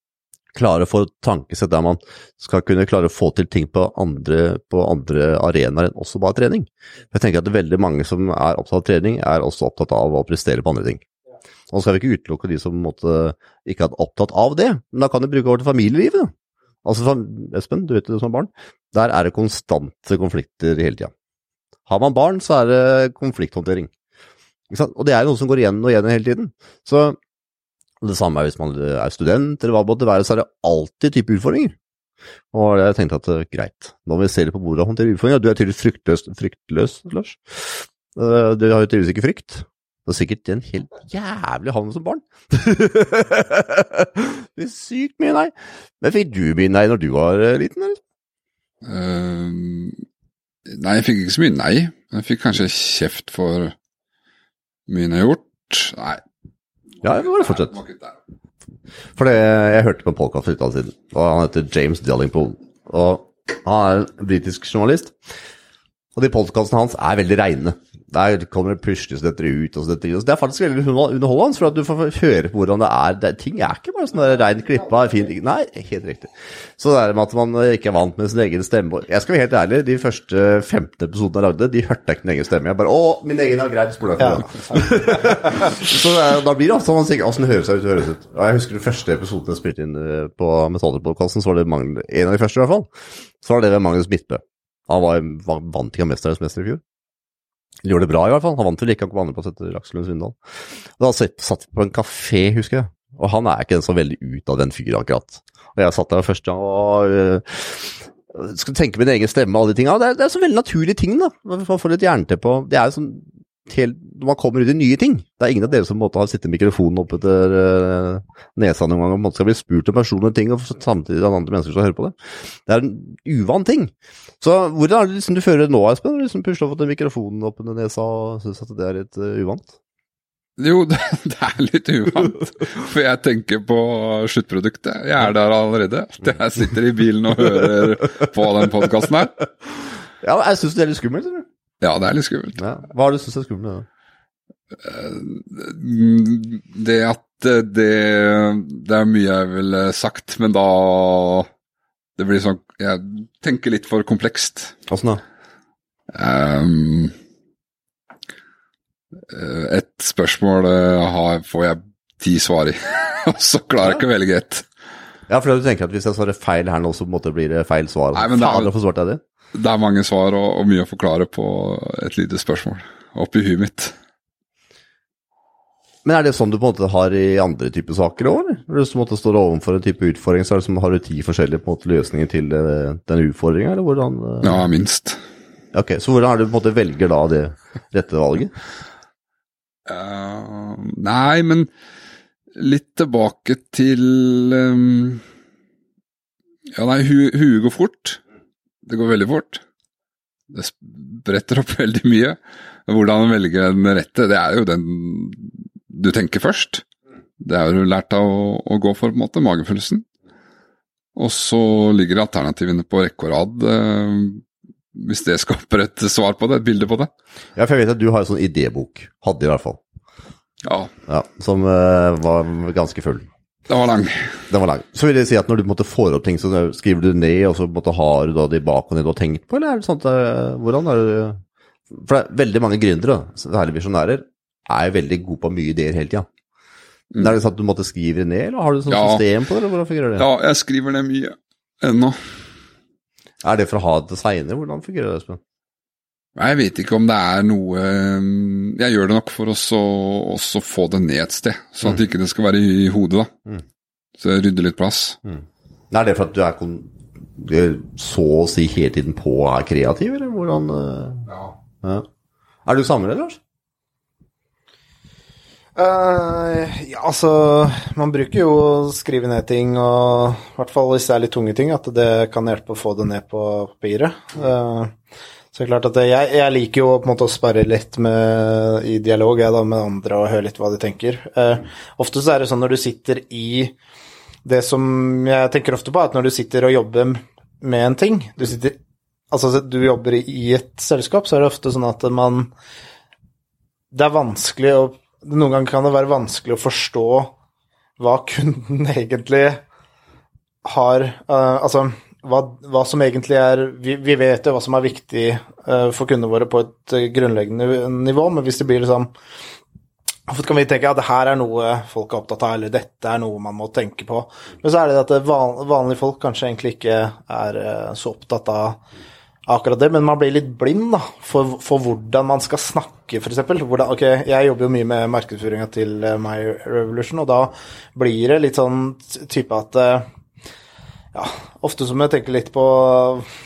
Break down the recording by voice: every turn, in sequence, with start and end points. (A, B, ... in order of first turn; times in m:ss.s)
0:00.5-0:11.0 A
0:11.7-0:16.3 A
0:16.8-0:21.1 A
0:21.9-0:23.9 A
0:24.7-0:27.2 A
0:28.0-0:31.8 A
0:32.5-0:48.0 A
0:48.8-0:50.0 B
0:50.7-0:53.8 B
0:54.9-0:56.2 B
0:57.0-0:57.8 A
0:57.1-0:58.2 B
0:59.2-1:05.2 A
1:06.2-1:32.9 A
1:24.2-1:25.7 C
1:33.4-1:36.8 A
1:37.8-1:40.4 A
1:41.0-2:02.1 A
2:02.7-2:09.8 A
2:10.6-2:19.4 B
2:20.2-2:21.5 A
2:21.8-2:22.6 B
2:22.6-2:23.9 A
2:24.8-2:31.5 B
2:32.2-2:34.8 B
2:34.9-2:35.2 A
2:36.1-2:37.2 B
2:39.3-2:44.7 B
2:45.3-2:49.2 A
2:48.2-2:48.7 B
2:49.5-2:54.0 B
2:56.0-3:04.7 A
3:04.4-3:05.2 B
3:05.7-3:08.5 A
3:09.9-3:11.7 B
3:12.6-3:15.2 B
3:16.8-3:18.2 B
3:18.9-3:19.6 B
3:20.5-3:26.8 B
3:27.4-3:30.0 B
3:31.2-3:37.1 B
3:37.6-3:39.8 A
3:40.6-3:40.9 B
3:41.1-3:43.3 A
3:43.7-3:44.4 B
3:44.5-3:56.3 A
3:57.2-4:00.3 A
3:58.9-3:59.2 B
4:00.2-4:02.2 B
4:03.4-4:05.4 A
4:06.4-4:13.3 B
4:14.2-4:15.2 B
4:15.2-4:22.1 A
4:22.7-4:23.4 A
4:25.8-4:34.9 C
4:35.5-4:43.8 C
4:44.4-4:48.8 C
4:49.3-4:52.5 C
4:53.9-4:57.4 C
4:58.0-4:59.6 C
5:00.6-5:09.1 C
5:10.3-5:18.8 C
5:19.5-5:30.1 C
5:31.1-5:33.3 C